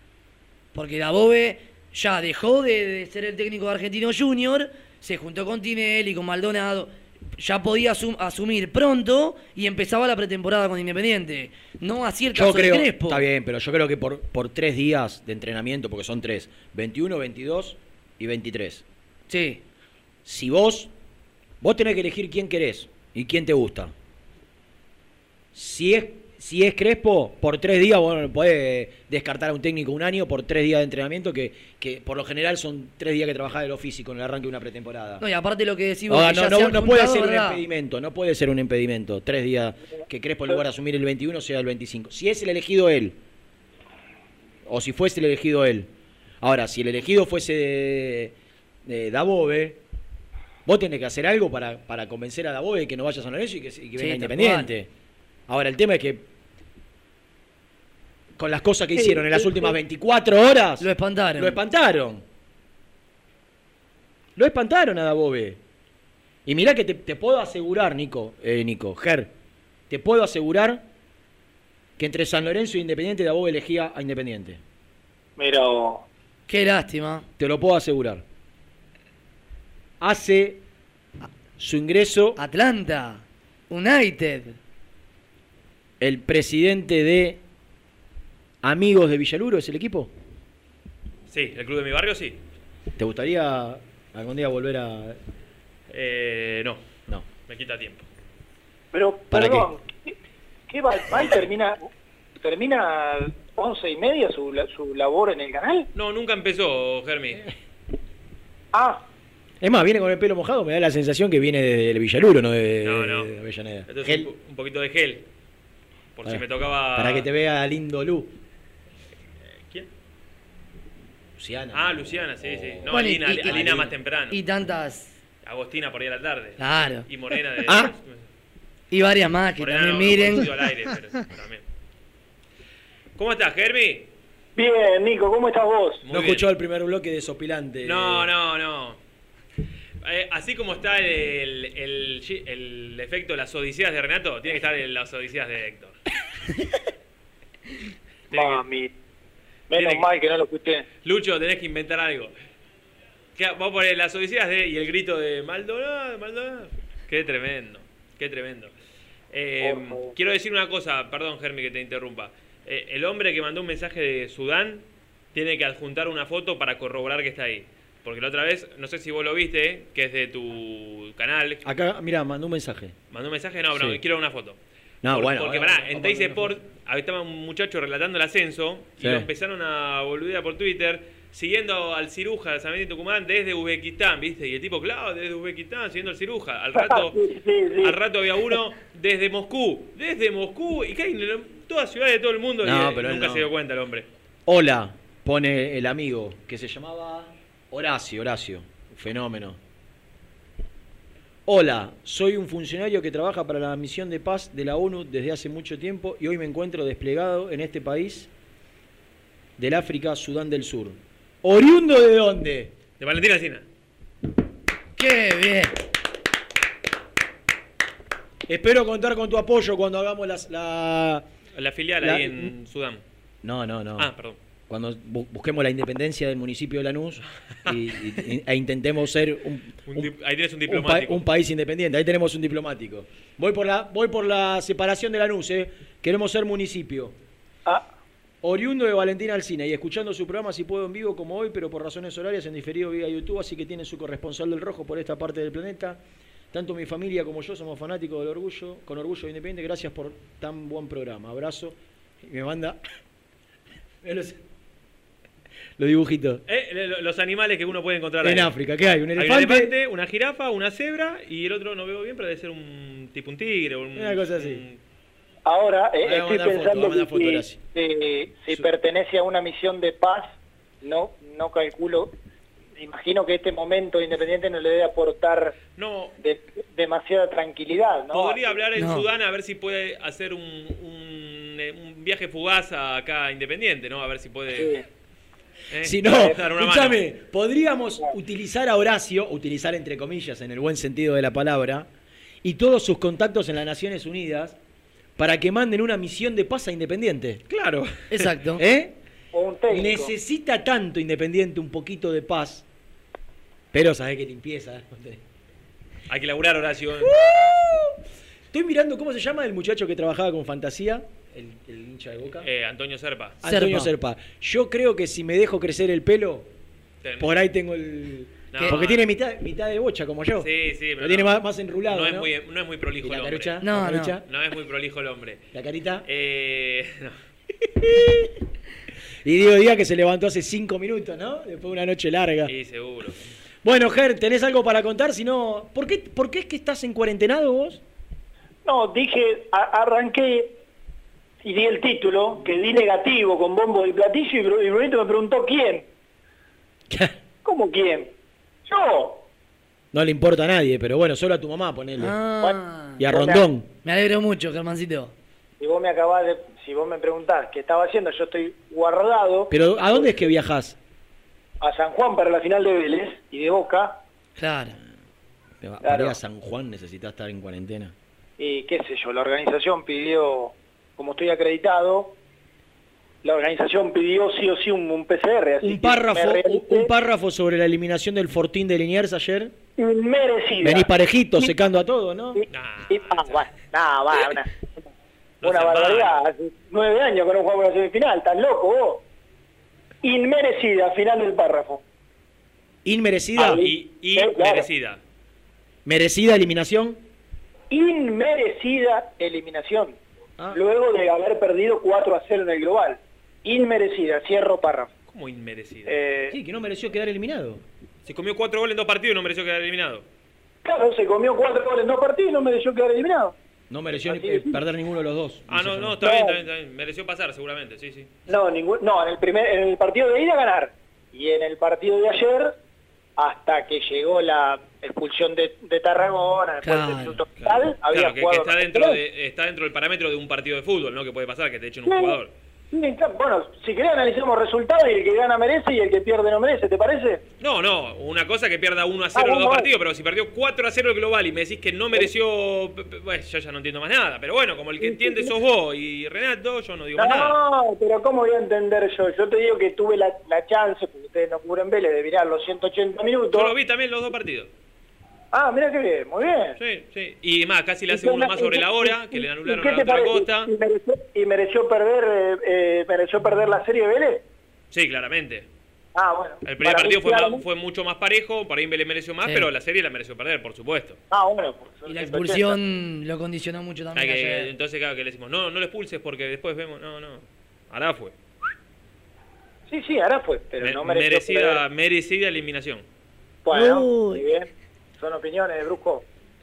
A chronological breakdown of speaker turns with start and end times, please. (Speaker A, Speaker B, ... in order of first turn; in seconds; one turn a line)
Speaker A: 0.7-13.2
Speaker B: 12.3-18.8
Speaker A: 19.3-19.6
Speaker B: 20.2-20.9
Speaker B: 21.6-23.9
Speaker B: 25.5-35.2
Speaker A: 35.2-37.6
Speaker B: 36.1-43.1
Speaker B: 44.6-45.9
Speaker B: 46.4-48.3
Speaker B: 48.9-49.8
Speaker B: 50.6-54.9
Speaker A: 54.0-54.7
Speaker B: 55.5-56.3
Speaker B: 58.4-62.2
Speaker C: 59.0-59.7
Speaker A: 60.8-61.6
Speaker B: 64.3-65.6
Speaker B: 66.5-69.3
Speaker B: 69.9-70.8
Speaker B: 72.0-74.6
Speaker C: 75.4-76.0
Speaker A: 76.5-77.3
Speaker B: 77.4-78.2
Speaker B: 80.0-80.6
Speaker B: 81.6-82.4
Speaker A: 82.4-84.6
Speaker B: 86.0-87.4
Speaker B: 88.6-90.1
Speaker D: 91.3-92.4
Speaker B: 93.0-95.2
Speaker D: 95.9-96.8
Speaker D: 97.5-98.0
Speaker C: 98.9-100.2
Speaker B: 99.3-99.7
Speaker C: 100.7-101.9
Speaker C: 102.4-105.9
Speaker D: 105.9-107.4
Speaker C: 108.7-109.0
Speaker B: 109.6-114.3
Speaker D: 112.8-113.3
Speaker D: 113.9-115.2
Speaker D: 116.2-117.3
Speaker B: 116.9-118.3
Speaker B: 121.4-124.0
Speaker D: 121.7-124.4
Speaker A: 122.9-123.6
Speaker A: 124.3-125.1
Speaker D: 125.4-128.2
Speaker A: 126.6-127.0
Speaker B: 127.6-127.9
Speaker A: 128.9-130.4
Speaker D: 129.6-131.6
Speaker D: 133.2-134.1
Speaker C: 134.6-136.0
Speaker D: 136.0-136.4
Speaker B: 136.1-138.3
Speaker D: 137.8-139.0
Speaker D: 140.0-145.9
Speaker D: 148.3-148.6
Speaker C: 148.3-148.9
Speaker C: 149.7-150.8
Speaker D: 149.7-150.1
Speaker D: 151.0-152.3
Speaker D: 153.3-158.7
Speaker D: 159.3-171.6
Speaker C: 159.6-160.1
Speaker B: 171.6-172.9
Speaker D: 173.1-174.6
Speaker B: 173.7-174.0
Speaker B: 175.0-176.5
Speaker D: 175.1-187.2
Speaker B: 179.0-179.2
Speaker C: 186.8-187.9
Speaker D: 187.8-194.1
Speaker B: 192.6-193.5
Speaker B: 194.4-199.6
Speaker B: 201.4-208.3
Speaker B: 209.6-212.7
Speaker D: 213.0-213.6
Speaker A: 214.9-215.8
Speaker B: 218.5-221.2
Speaker D: 221.6-223.0
Speaker B: 222.0-222.5
Speaker B: 223.4-224.1
Speaker D: 224.0-224.4
Speaker B: 224.7-230.1
Speaker D: 229.9-231.2
Speaker B: 230.7-237.2
Speaker B: 238.4-246.0
Speaker B: 246.5-252.8
Speaker B: 254.0-254.4
Speaker B: 255.8-256.4
Speaker D: 256.5-258.5
Speaker B: 258.2-259.7
Speaker D: 259.1-264.8
Speaker B: 263.9-264.6
Speaker C: 265.4-272.1
Speaker B: 266.0-267.6
Speaker C: 272.8-275.6
Speaker D: 275.8-276.1
Speaker C: 276.2-278.5
Speaker D: 278.1-284.8
Speaker A: 278.8-279.1
Speaker C: 284.5-284.8
Speaker D: 285.7-287.0
Speaker B: 285.8-291.9
Speaker B: 292.4-294.6
Speaker B: 295.2-298.9
Speaker A: 298.1-298.6
Speaker C: 299.3-300.1
Speaker B: 299.7-302.6
Speaker B: 303.7-305.2
Speaker D: 306.1-307.1
Speaker B: 307.0-307.9
Speaker B: 308.5-312.5
Speaker D: 312.4-313.4
Speaker B: 313.4-316.5
Speaker A: 313.4-313.9
Speaker D: 317.0-317.4
Speaker B: 317.2-322.3
Speaker D: 318.5-319.1
Speaker D: 320.4-323.6
Speaker B: 323.0-324.2
Speaker A: 323.6-324.1
Speaker D: 324.2-325.4
Speaker B: 325.5-326.0
Speaker D: 326.0-327.1
Speaker B: 327.8-328.3
Speaker B: 329.2-332.5
Speaker D: 332.5-333.2
Speaker B: 333.6-337.8
Speaker C: 338.6-340.6
Speaker C: 341.4-345.9
Speaker B: 346.9-347.1
Speaker C: 347.4-348.1
Speaker C: 348.7-349.2
Speaker B: 349.9-352.2
Speaker A: 352.0-353.0
Speaker C: 352.4-353.5
Speaker B: 353.0-353.6
Speaker A: 353.8-355.1
Speaker C: 355.6-360.3
Speaker B: 359.5-360.8
Speaker C: 361.6-364.0
Speaker A: 364.4-364.8
Speaker B: 365.6-367.9
Speaker C: 365.8-366.2
Speaker C: 368.4-372.1
Speaker C: 373.2-376.9
Speaker B: 375.6-379.5
Speaker C: 379.8-381.5
Speaker B: 380.6-382.4
Speaker C: 382.3-384.5
Speaker D: 382.5-383.5
Speaker D: 385.4-386.2
Speaker C: 385.4-389.0
Speaker C: 390.0-391.8
Speaker B: 392.8-393.6
Speaker D: 393.4-395.0
Speaker C: 393.4-394.7
Speaker B: 395.8-397.0
Speaker C: 397.7-400.0
Speaker C: 400.5-404.9
Speaker D: 405.1-406.0
Speaker C: 405.9-406.3
Speaker B: 406.3-407.6
Speaker D: 408.1-410.0
Speaker C: 410.6-413.3
Speaker B: 413.7-416.0
Speaker C: 414.0-414.6
Speaker D: 415.5-418.1
Speaker C: 416.0-416.3
Speaker C: 418.3-422.6
Speaker C: 423.2-429.0
Speaker A: 426.6-427.2
Speaker D: 427.4-432.3
Speaker C: 431.9-432.1
Speaker C: 432.7-437.2
Speaker D: 437.4-447.4
Speaker C: 439.1-439.6
Speaker C: 444.8-445.3
Speaker C: 447.0-453.5
Speaker D: 453.3-454.5
Speaker C: 455.3-456.6
Speaker D: 456.6-460.5
Speaker C: 457.9-464.2
Speaker D: 464.7-465.5
Speaker C: 465.9-467.4
Speaker D: 466.4-471.0
Speaker A: 469.2-469.5
Speaker C: 471.1-472.6
Speaker A: 471.9-474.5
Speaker D: 473.9-478.1
Speaker C: 479.7-481.6
Speaker D: 480.6-482.8
Speaker C: 483.4-486.0
Speaker A: 483.5-484.2